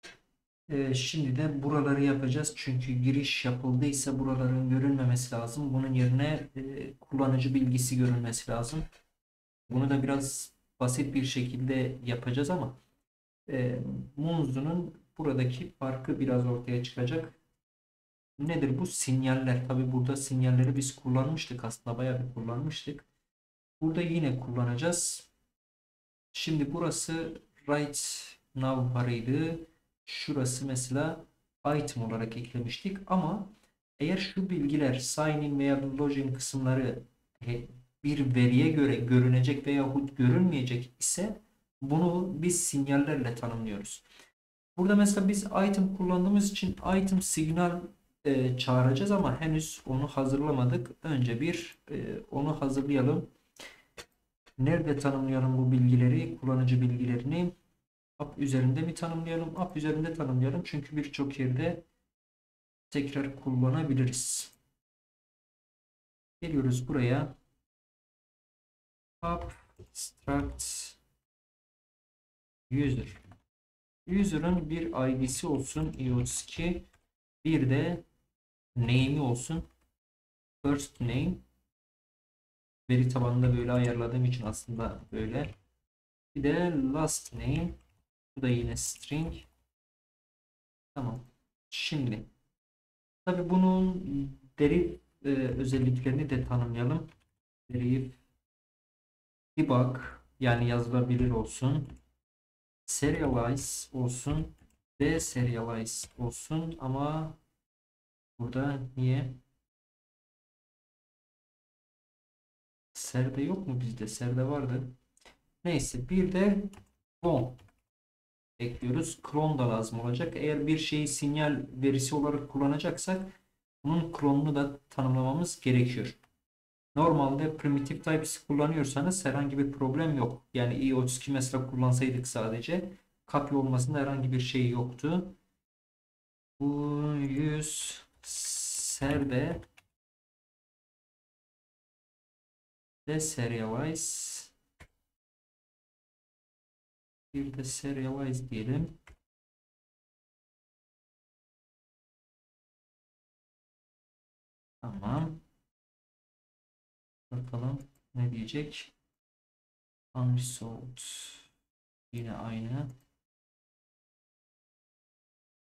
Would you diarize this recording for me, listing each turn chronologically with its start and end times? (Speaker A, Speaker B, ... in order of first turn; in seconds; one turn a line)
Speaker A: 0.7-8.9
Speaker A: 9.7-12.8
Speaker A: 13.5-17.4
Speaker A: 18.4-23.1
Speaker A: 23.8-25.3
Speaker A: 26.3-44.0
Speaker A: 44.8-53.3
Speaker A: 54.6-57.5
Speaker A: 58.2-61.9
Speaker A: 62.9-64.5
Speaker A: 66.4-67.4
Speaker A: 69.2-71.0
Speaker A: 72.7-73.2
Speaker A: 74.1-76.9
Speaker A: 77.4-78.0
Speaker A: 78.8-79.7
Speaker A: 80.6-81.4
Speaker A: 82.9-85.5
Speaker A: 86.3-87.8
Speaker A: 88.3-89.5
Speaker A: 91.0-92.3
Speaker A: 93.3-97.1
Speaker A: 97.7-98.2
Speaker A: 99.6-102.0
Speaker A: 102.9-107.4
Speaker A: 108.4-109.4
Speaker A: 112.9-115.0
Speaker A: 115.6-117.6
Speaker A: 118.6-126.2
Speaker A: 127.0-135.4
Speaker A: 136.6-139.6
Speaker A: 143.1-144.5
Speaker A: 147.3-149.0
Speaker A: 154.8-155.4
Speaker A: 157.3-158.9
Speaker A: 160.1-161.5
Speaker A: 162.1-162.9